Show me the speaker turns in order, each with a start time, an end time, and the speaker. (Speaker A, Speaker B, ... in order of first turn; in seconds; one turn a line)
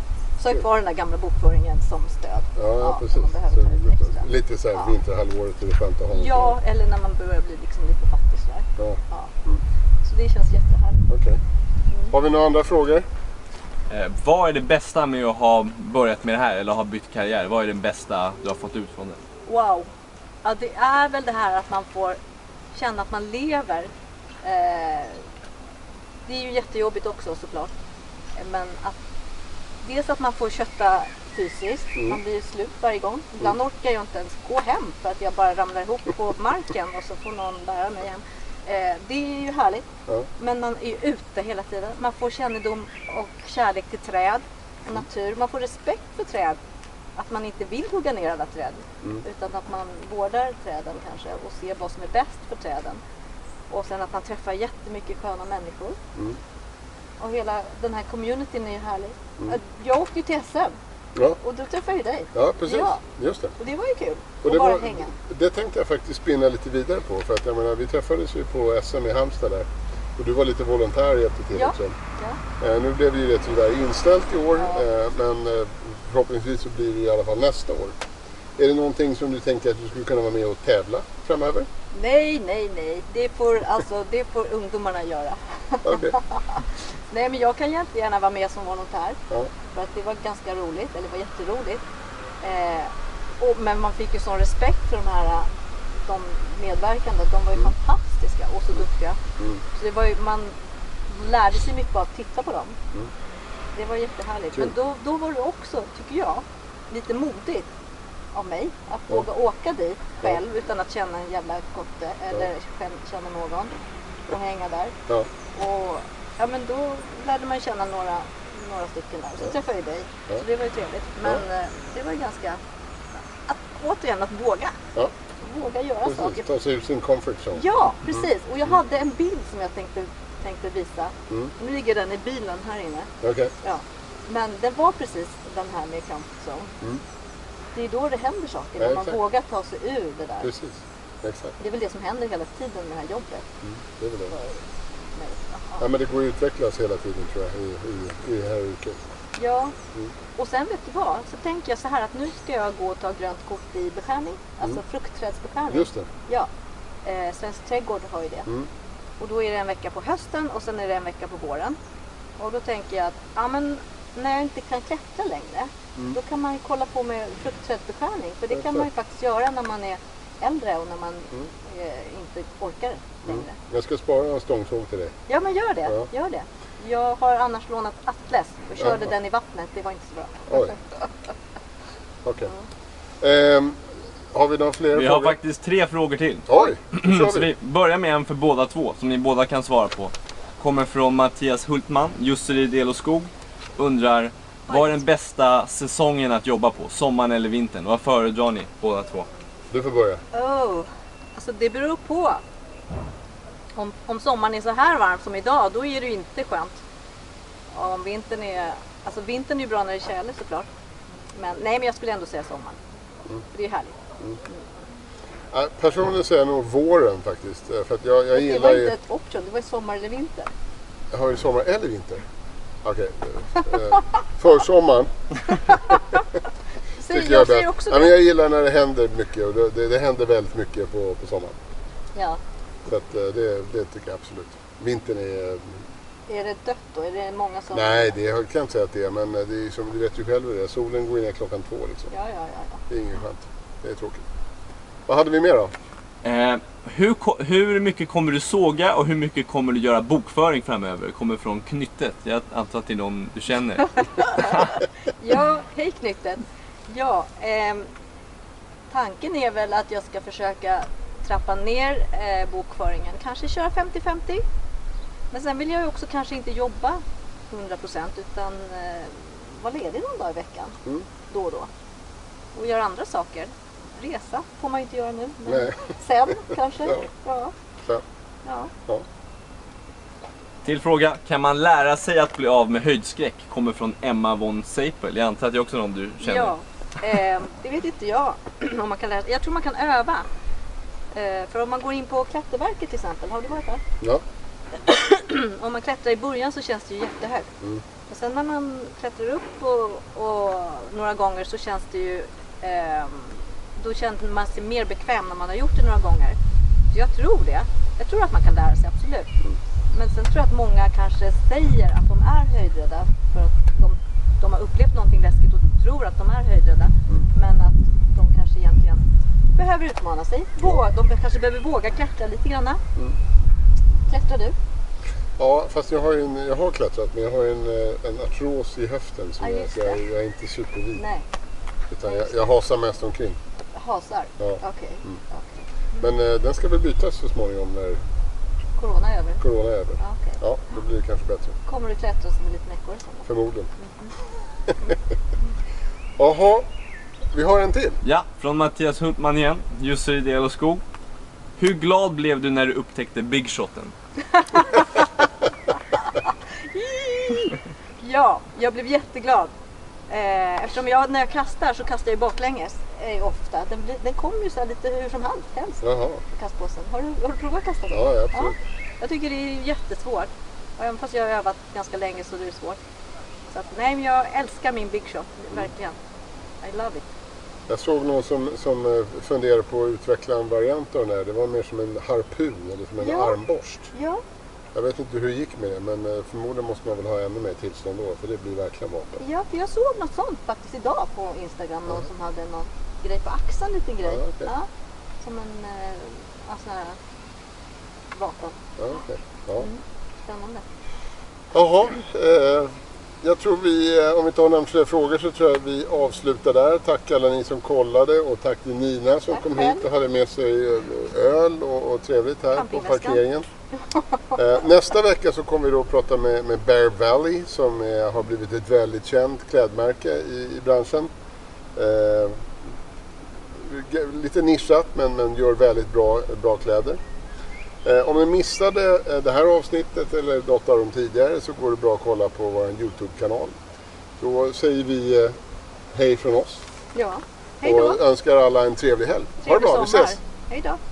Speaker A: 0.4-4.9
Speaker B: 2.6-6.5
Speaker A: 6.1-9.3
Speaker B: 8.8-9.6
Speaker A: 10.0-11.1
Speaker B: 11.1-11.4
Speaker B: 12.1-13.1
Speaker C: 13.9-19.2
Speaker A: 19.5-19.9
Speaker A: 20.4-22.2
Speaker A: 22.7-23.9
Speaker A: 24.4-25.3
Speaker A: 26.3-27.7
Speaker A: 28.4-29.0
Speaker A: 29.8-46.6
Speaker A: 47.2-53.0
Speaker A: 53.7-56.0
Speaker A: 57.2-60.8
Speaker A: 61.4-63.0
Speaker B: 62.3-63.5
Speaker A: 63.6-65.2
Speaker B: 64.4-72.0
Speaker A: 71.5-72.4
Speaker B: 72.6-78.0
Speaker A: 74.6-74.8
Speaker B: 78.6-81.7
Speaker A: 81.9-91.8
Speaker B: 85.8-86.2
Speaker A: 92.4-99.2
Speaker A: 99.7-100.5
Speaker A: 101.1-102.8
Speaker A: 103.7-107.7
Speaker A: 108.3-113.7
Speaker A: 114.3-115.0
Speaker A: 115.5-122.6
Speaker A: 123.2-124.8
Speaker A: 125.4-126.5
Speaker B: 126.0-128.3
Speaker A: 127.5-136.8
Speaker B: 133.2-133.5
Speaker A: 137.8-140.5
Speaker B: 138.8-139.2
Speaker B: 140.4-141.6
Speaker A: 141.6-143.5
Speaker B: 143.6-144.4
Speaker A: 144.3-145.9
Speaker B: 145.8-149.0
Speaker A: 149.4-149.8
Speaker A: 150.4-156.5
Speaker B: 155.7-156.1
Speaker A: 157.1-158.5
Speaker A: 159.2-161.8
Speaker A: 162.4-173.6
Speaker B: 168.5-168.9
Speaker B: 173.3-175.2
Speaker A: 175.3-180.8
Speaker B: 178.8-179.1
Speaker B: 180.5-180.8
Speaker B: 182.2-182.5
Speaker B: 183.2-185.4
Speaker C: 184.9-199.3
Speaker B: 186.5-187.5
Speaker A: 194.7-195.0
Speaker B: 199.7-200.2
Speaker A: 200.3-202.4
Speaker A: 203.8-206.8
Speaker A: 207.7-210.7
Speaker A: 211.3-212.8
Speaker A: 213.5-214.6
Speaker B: 215.5-218.9
Speaker A: 218.3-220.5
Speaker B: 221.1-222.3
Speaker B: 222.8-226.0
Speaker A: 225.5-226.2
Speaker A: 227.0-228.1
Speaker B: 227.1-231.6
Speaker A: 232.2-232.4
Speaker B: 232.9-235.8
Speaker A: 236.3-238.2
Speaker B: 237.7-242.1
Speaker A: 242.1-242.8
Speaker B: 242.9-244.2
Speaker B: 245.1-245.7
Speaker C: 246.2-254.7
Speaker A: 254.0-257.9
Speaker A: 258.9-264.4
Speaker A: 265.3-270.8
Speaker A: 271.3-271.7
Speaker A: 272.6-277.5
Speaker B: 275.5-275.8
Speaker A: 278.4-278.7
Speaker C: 280.6-286.5
Speaker A: 286.2-290.3
Speaker A: 291.1-293.8
Speaker A: 294.8-297.5
Speaker A: 298.1-306.4
Speaker A: 306.9-309.3
Speaker A: 309.9-322.8
Speaker A: 324.1-324.6
Speaker B: 325.4-331.0
Speaker A: 329.4-330.0
Speaker A: 331.0-331.3
Speaker B: 331.9-333.4
Speaker A: 332.1-332.5
Speaker A: 333.8-336.1
Speaker B: 334.4-335.2
Speaker B: 336.0-338.0
Speaker A: 338.8-339.4
Speaker B: 339.4-341.6
Speaker A: 340.0-340.4
Speaker A: 341.6-344.1
Speaker B: 343.3-343.7
Speaker B: 346.2-346.7
Speaker B: 347.3-348.0
Speaker C: 348.0-350.8
Speaker C: 351.6-353.9
Speaker A: 354.3-355.1
Speaker A: 356.0-359.5
Speaker A: 360.1-372.8
Speaker B: 365.8-366.2
Speaker B: 367.9-368.6
Speaker A: 373.5-376.0
Speaker A: 376.6-377.0
Speaker B: 377.7-383.9
Speaker A: 383.0-383.4
Speaker A: 383.9-384.2
Speaker B: 384.7-389.2
Speaker A: 389.2-394.7
Speaker B: 394.1-394.5
Speaker A: 395.2-397.0
Speaker A: 398.1-398.6
Speaker B: 398.8-399.7
Speaker A: 399.6-400.6
Speaker B: 401.5-413.5
Speaker A: 409.3-409.9
Speaker A: 412.5-413.2
Speaker B: 414.4-421.1
Speaker B: 421.8-422.5
Speaker B: 423.5-427.0
Speaker B: 427.8-433.6
Speaker B: 434.2-435.3
Speaker B: 435.9-436.6
Speaker A: 436.9-438.0
Speaker B: 437.6-440.2
Speaker A: 439.4-440.8